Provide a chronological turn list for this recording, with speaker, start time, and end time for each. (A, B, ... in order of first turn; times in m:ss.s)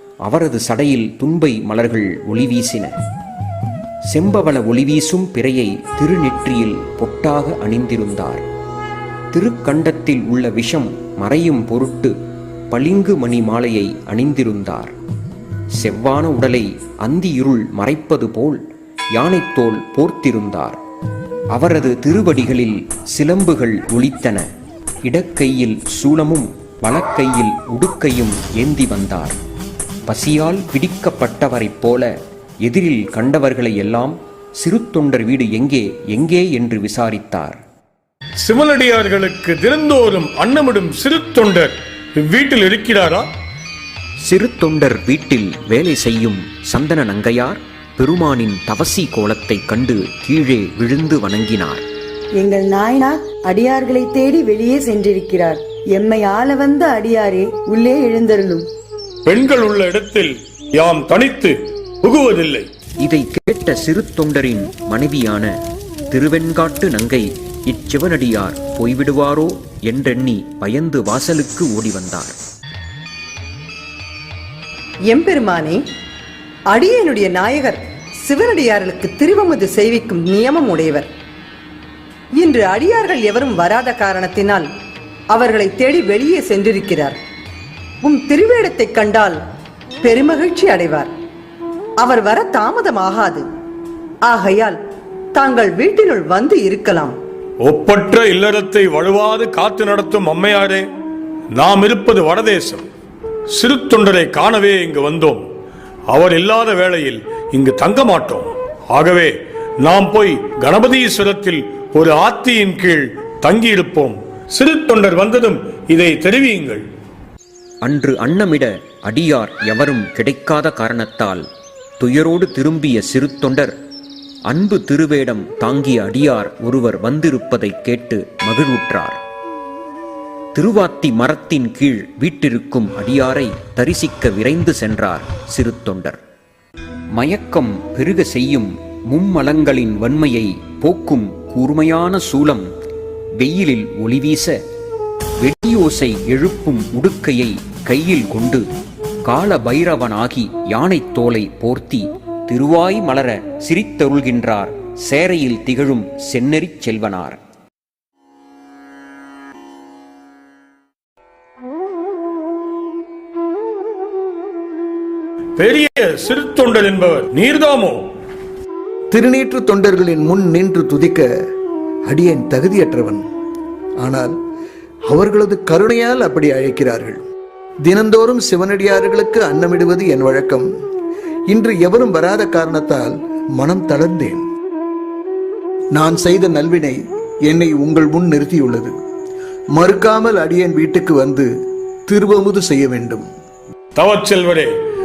0:00.2-0:02.9 A
0:04.1-0:08.4 A
0:09.3-0:12.1 A
0:12.7-0:14.9 A
0:15.8-0:18.6 A
0:19.2-0:20.8 A
0:21.5-0:24.4 A
0:25.0-0:29.4 A
0:30.1-0:32.1 A
0:32.6-0:37.6 A
0:38.4-0:43.3 B
0:44.2-0:51.8 A
0:52.4-0:58.7 C
0:59.2-1:02.7 B
1:03.0-1:05.5 A
1:06.1-1:12.4 A
1:15.1-1:15.8 D
1:16.7-1:21.1 D
1:22.4-1:24.7 D
1:25.3-1:27.2 D
1:28.0-1:29.4 D
1:30.0-1:31.1 D
1:32.0-1:33.4 D
1:34.2-1:34.8 D
1:35.3-1:37.2 D
1:37.6-1:40.9 B
1:41.5-1:42.9 B
1:43.5-1:45.4 B
1:46.1-1:56.8 B
1:57.8-2:01.4 A
2:02.0-2:03.7 A
2:04.5-2:09.2 A
2:10.5-2:16.2 A
2:17.1-2:22.7 A
2:23.4-2:24.6 A
2:25.4-2:28.6 A
2:29.2-2:37.4 A
2:45.6-2:48.0 B
2:49.1-2:51.2 E
2:52.1-2:53.2 E
2:54.0-2:54.3 E
2:55.1-2:57.2 E
2:57.8-3:00.7 E
3:01.5-3:04.4 E
3:05.9-3:08.9 E
3:09.7-3:11.5 E
3:12.1-3:13.3 E
3:14.0-3:14.7 B